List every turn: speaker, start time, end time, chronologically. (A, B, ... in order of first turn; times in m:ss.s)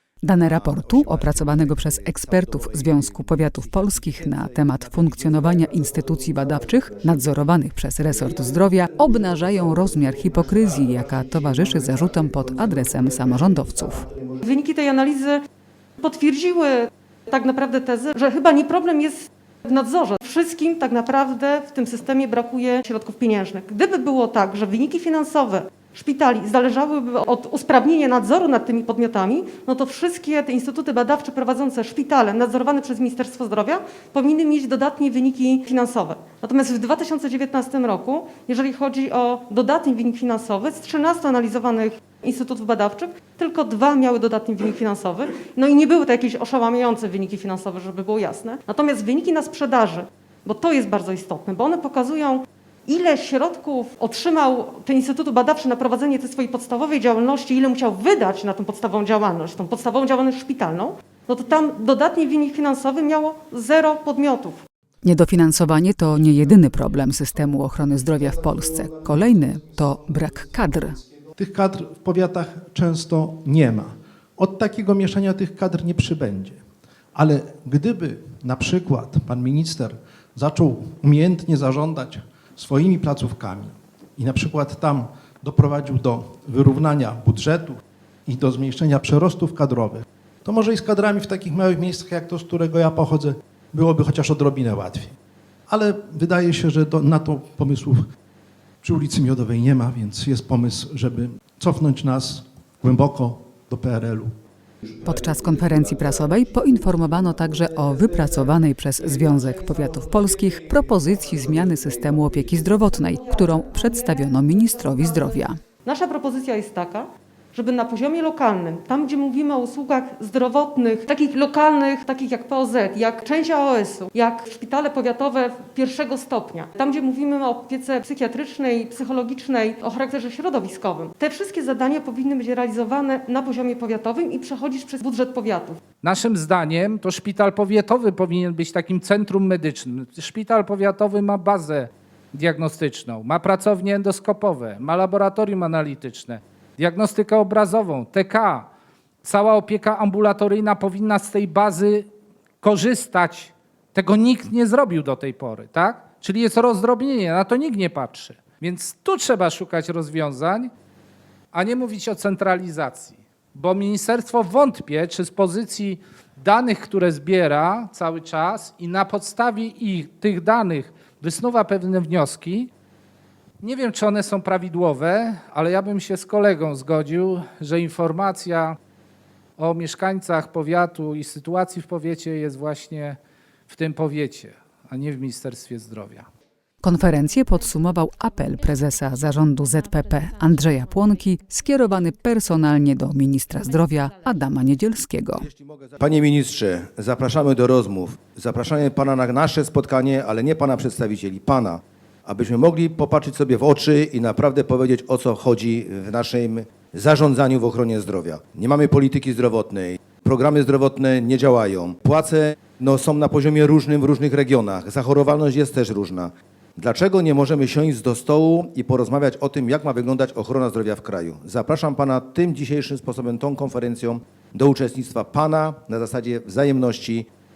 0:00.2-0:14.1 A
0:14.4-0:15.4 B
0:16.0-1:04.6 B
1:05.0-1:11.0 A
1:11.4-1:16.6 C
1:17.1-1:35.1 C
1:35.7-1:38.0 C
1:38.8-1:44.3 C
1:45.0-1:55.6 A
1:53.3-1:55.1 B
1:55.8-2:15.8 B
2:16.0-2:28.7 D
2:29.2-2:32.1 D
2:32.6-2:40.7 D
2:41.5-2:52.7 D
2:53.6-2:58.8 D
2:59.6-3:06.2 D
3:06.8-3:15.5 A
3:09.5-3:10.4 B
3:13.6-3:14.2 B
3:15.3-3:47.3 E